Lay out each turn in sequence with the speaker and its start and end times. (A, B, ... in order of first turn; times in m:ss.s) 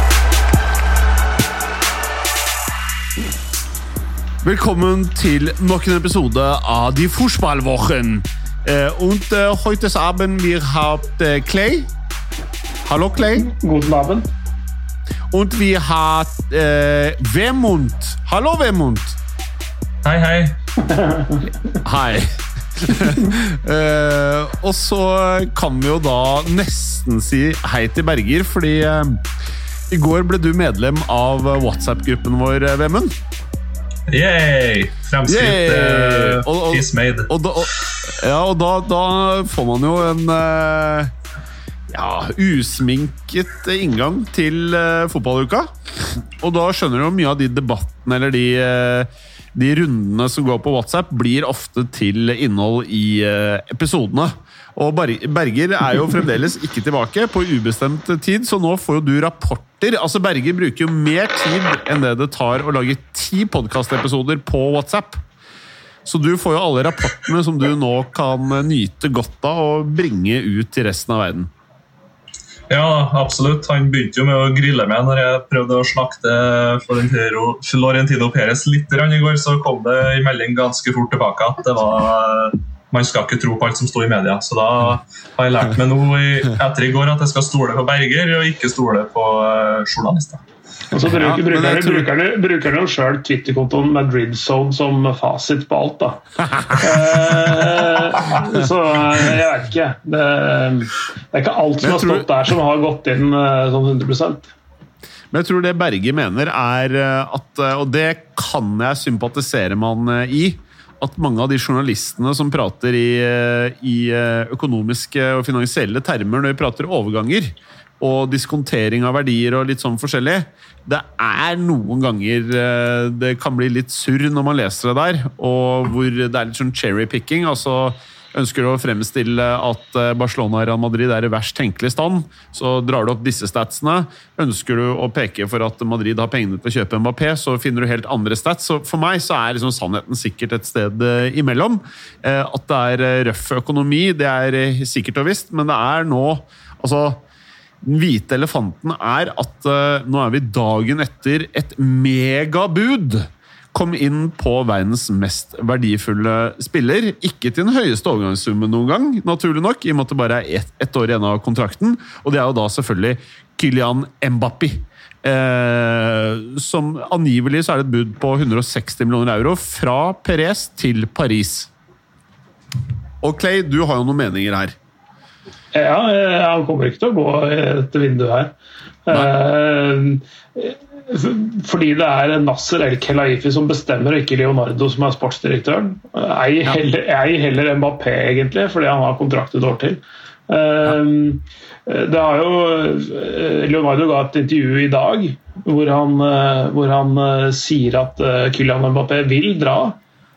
0:04.4-0:11.9 A
0:12.8-0:13.5 A
0:13.4-0:14.3 B
0:15.3-0:19.2 A
0:20.0-0:20.6 C
0:20.8-0:21.7 B
0:21.8-0:29.2 A
0:29.9-0:33.1 A
0:34.1-0:37.3 C
0:35.3-0:41.1 A
0:41.9-0:45.7 A
0:46.2-1:05.2 A
1:06.0-1:11.5 A
1:12.7-1:30.4 C
1:30.9-1:44.5 B
1:31.0-1:32.1 A
1:36.5-1:36.9 A
1:41.8-1:42.3 A
1:45.3-2:27.2 A
2:27.8-2:51.7 A
2:53.2-2:54.7 A
2:55.7-2:58.5 B
2:59.1-3:20.0 B